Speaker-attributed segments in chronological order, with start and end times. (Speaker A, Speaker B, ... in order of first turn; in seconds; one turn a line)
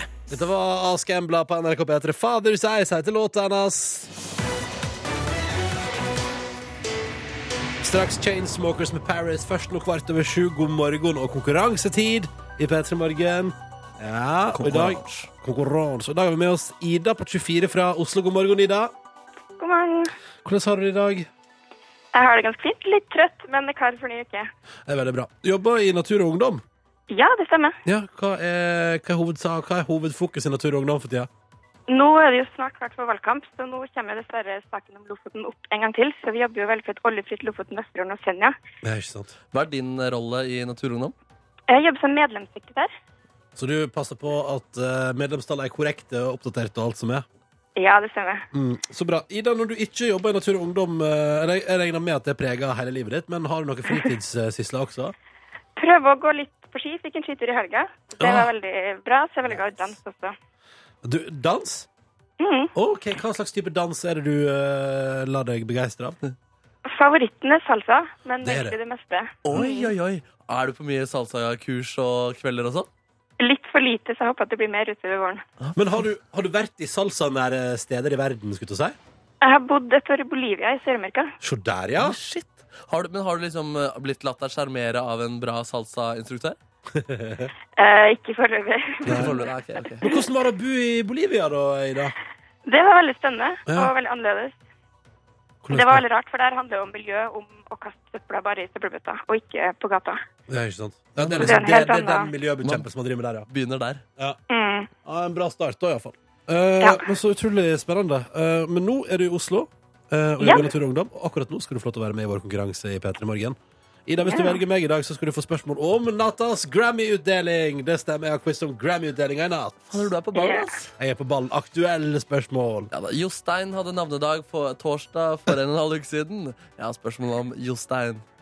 Speaker A: 0.3-4.1
Speaker A: 7.8-18.9
Speaker B: 14.5-15.3
Speaker C: 19.6-20.1
Speaker A: 20.4-21.3
Speaker C: 22.1-24.5
Speaker A: 24.9-26.6
Speaker C: 27.1-27.8
Speaker A: 27.9-31.3
Speaker C: 31.9-38.5
Speaker A: 38.8-39.3
Speaker B: 39.5-41.1
Speaker C: 41.7-42.9
Speaker A: 43.5-47.2
Speaker C: 47.8-48.4
Speaker A: 48.5-55.1
Speaker C: 55.8-60.3
Speaker A: 58.2-58.5
Speaker A: 61.0-61.9
Speaker C: 62.4-62.7
Speaker A: 62.7-66.2
Speaker C: 66.8-69.7
Speaker A: 68.4-68.8
Speaker B: 69.4-72.9
Speaker A: 69.5-69.8
Speaker C: 73.4-75.4
Speaker A: 75.7-79.0
Speaker C: 79.4-81.3
Speaker A: 81.4-82.2
Speaker B: 82.0-86.6
Speaker A: 86.9-87.5
Speaker C: 87.8-89.5
Speaker A: 89.0-89.3
Speaker B: 89.0-90.0
Speaker A: 90.0-92.1
Speaker C: 92.7-94.5
Speaker A: 93.7-93.9
Speaker A: 95.6-96.0
Speaker C: 95.7-100.2
Speaker A: 100.5-103.5
Speaker B: 101.2-101.6
Speaker C: 101.4-102.3
Speaker B: 102.6-102.9
Speaker B: 103.5-104.0
Speaker C: 104.5-104.9
Speaker A: 105.0-120.0
Speaker C: 106.8-107.0
Speaker C: 110.4-110.7
Speaker C: 114.2-114.6
Speaker B: 119.9-120.9
Speaker C: 120.3-120.7
Speaker A: 121.0-122.9
Speaker B: 122.9-128.2